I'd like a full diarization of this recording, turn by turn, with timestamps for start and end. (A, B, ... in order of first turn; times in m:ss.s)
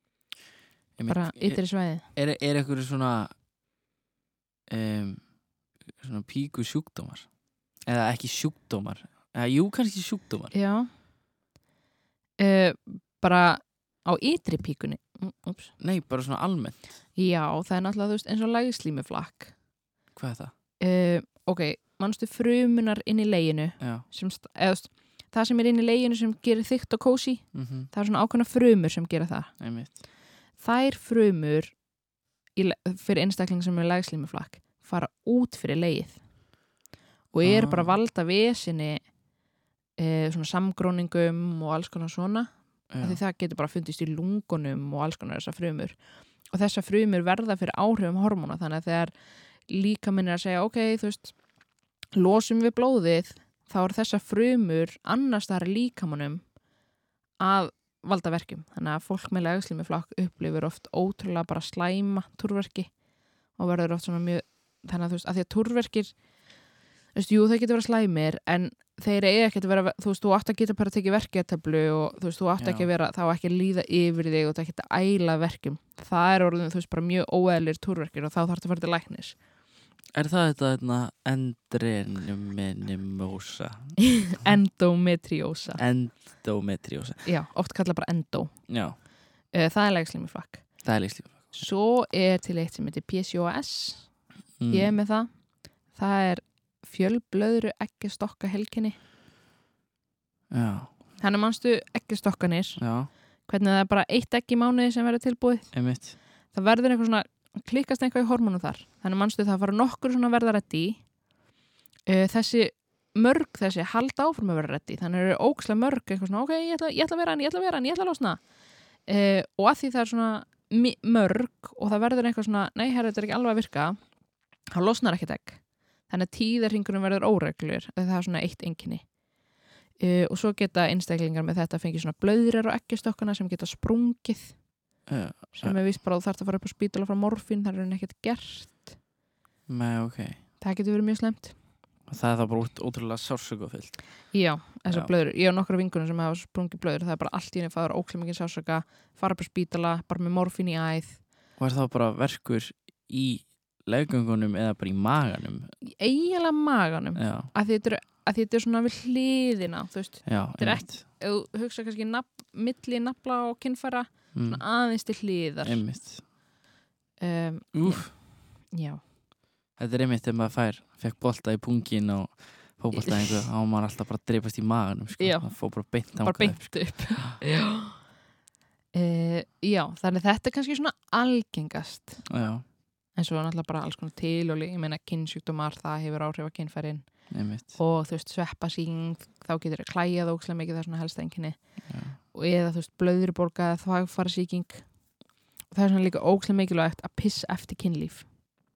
0:01.0-0:03.3 A
0:01.1-0:02.1 B
0:04.7-0:05.2 A
0:06.0-0:07.3 A
0:07.9-0:10.5 A
0:10.5-0:10.9 B
0:12.4-0:15.7 B
0:15.8-0:16.8 A
0:17.2-0:19.5 B
0:20.2-0:20.5 A
0:20.8-0:29.5 B
0:23.8-0:24.0 A
0:27.5-0:27.9 A
0:29.6-0:30.0 A
0:30.6-0:31.8 B
0:32.6-0:36.2 B
0:37.3-0:39.0 B
0:37.4-0:37.9 A
0:40.0-0:46.0 B
0:42.9-0:43.2 A
0:46.5-0:49.1 B
0:49.7-0:51.4 B
0:52.1-0:56.4 B
0:57.4-1:02.9 B
1:03.6-1:06.1 B
1:07.1-1:19.4 B
1:12.6-1:12.9 A
1:20.1-1:24.0 A
1:24.0-1:25.8 B
1:25.8-1:27.2 A
1:27.3-1:28.6 B
1:28.7-1:29.0 A
1:29.5-1:30.7 B
1:30.8-1:31.6 A
1:31.5-1:34.1 B
1:34.6-1:34.9 A
1:34.7-1:35.3 B
1:35.9-1:39.0 B
1:40.5-1:40.9 A
1:41.2-1:42.8 B
1:42.8-1:43.1 A
1:43.5-1:45.7 B
1:45.7-1:46.2 A
1:46.5-1:51.0 B
1:52.1-1:58.4 B
1:59.1-2:04.0 B
2:04.8-2:09.0 B
2:10.0-2:14.6 B
2:15.1-2:15.8 A
2:15.5-2:18.9 B
2:19.7-2:20.4 A
2:20.6-2:21.6 B
2:22.1-2:24.0 A
2:24.3-2:31.2 B
2:31.6-2:35.7 A
2:35.8-2:45.8 B
2:37.2-2:37.5 A
2:40.3-2:41.0 A
2:44.3-2:44.6 A
2:45.6-2:46.2 A
2:47.2-2:48.1 B
2:47.7-2:48.1 A
2:48.7-2:49.0 B
2:49.8-2:57.4 A
2:52.9-2:53.4 B
2:55.2-2:55.5 B
2:56.2-2:58.0 B
2:58.9-3:02.3 B
3:02.3-3:02.6 A
3:03.2-3:07.1 B
3:07.3-3:07.7 A
3:07.8-3:11.6 B
3:11.9-3:12.2 A
3:12.3-3:14.8 B
3:15.7-3:18.3 B